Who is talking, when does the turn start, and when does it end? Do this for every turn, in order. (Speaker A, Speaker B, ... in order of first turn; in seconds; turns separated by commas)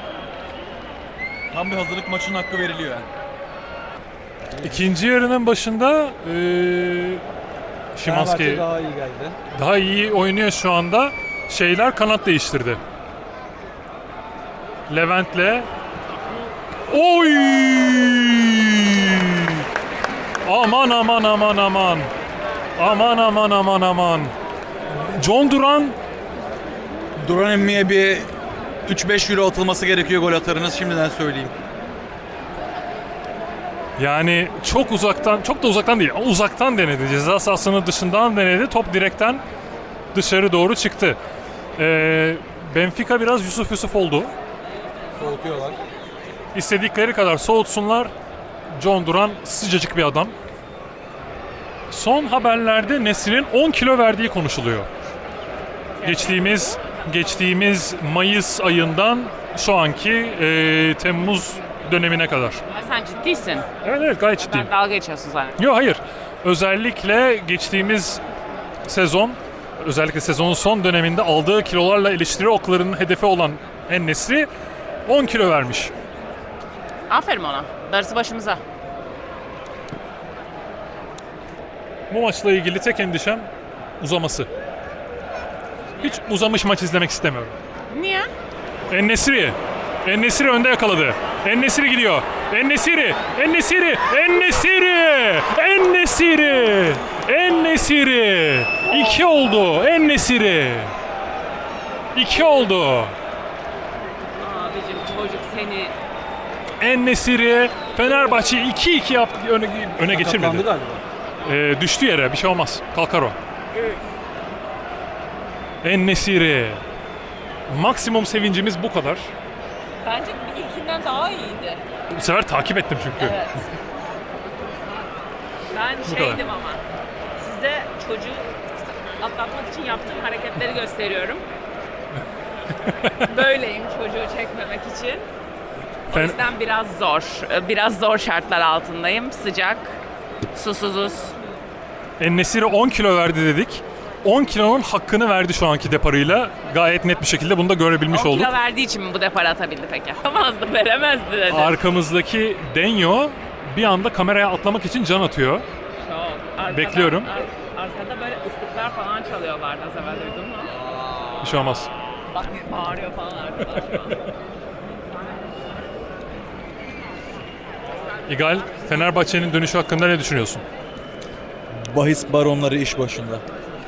Speaker A: 1.5-3.1, Speaker A: 4.5-4.9, Speaker B: 4.6-7.2, Speaker B: 7.9-8.7, Speaker A: 8.0-9.4, Speaker B: 9.5-12.8, Speaker B: 14.9-15.7, Speaker B: 16.9-19.4, Speaker B: 20.4-22.1, Speaker B: 22.8-24.3, Speaker B: 24.9-26.0, Speaker A: 27.2-28.3, Speaker A: 28.9-31.6, Speaker B: 34.0-39.4, Speaker B: 40.1-41.2, Speaker B: 41.8-44.3, Speaker A: 45.1-45.8, Speaker B: 46.5-48.1, Speaker B: 48.7-50.4, Speaker B: 51.9-54.9, Speaker C: 56.0-56.8, Speaker B: 56.0-62.6, Speaker C: 62.7-63.7, Speaker B: 63.8-64.7, Speaker C: 64.4-65.6, Speaker B: 65.6-68.2, Speaker B: 68.8-74.5, Speaker B: 75.1-75.9, Speaker C: 77.1-78.6, Speaker B: 82.1-83.5, Speaker B: 84.0-84.5, Speaker B: 86.0-87.5, Speaker C: 87.9-88.3, Speaker B: 88.9-100.9, Speaker C: 98.9-99.2, Speaker B: 102.2-103.2, Speaker C: 104.4-105.9, Speaker B: 106.8-110.7, Speaker A: 110.0-111.0, Speaker B: 111.4-113.4, Speaker B: 115.8-116.8, Speaker B: 117.7-119.3, Speaker C: 120.0-121.8, Speaker B: 122.1-123.4, Speaker C: 123.2-123.7, Speaker C: 125.7-126.8, Speaker B: 126.1-126.4, Speaker C: 127.4-128.5, Speaker C: 129.2-131.4, Speaker B: 132.8-133.3, Speaker C: 133.2-135.3, Speaker C: 136.1-140.0, Speaker B: 136.1-136.4, Speaker C: 140.5-141.3, Speaker B: 142.2-148.5, Speaker C: 148.1-151.8, Speaker B: 151.5-155.7, Speaker C: 156.0-161.3, Speaker B: 156.7-157.3, Speaker B: 161.4-161.9, Speaker C: 162.3-164.2, Speaker B: 168.3-170.6, Speaker A: 171.7-173.4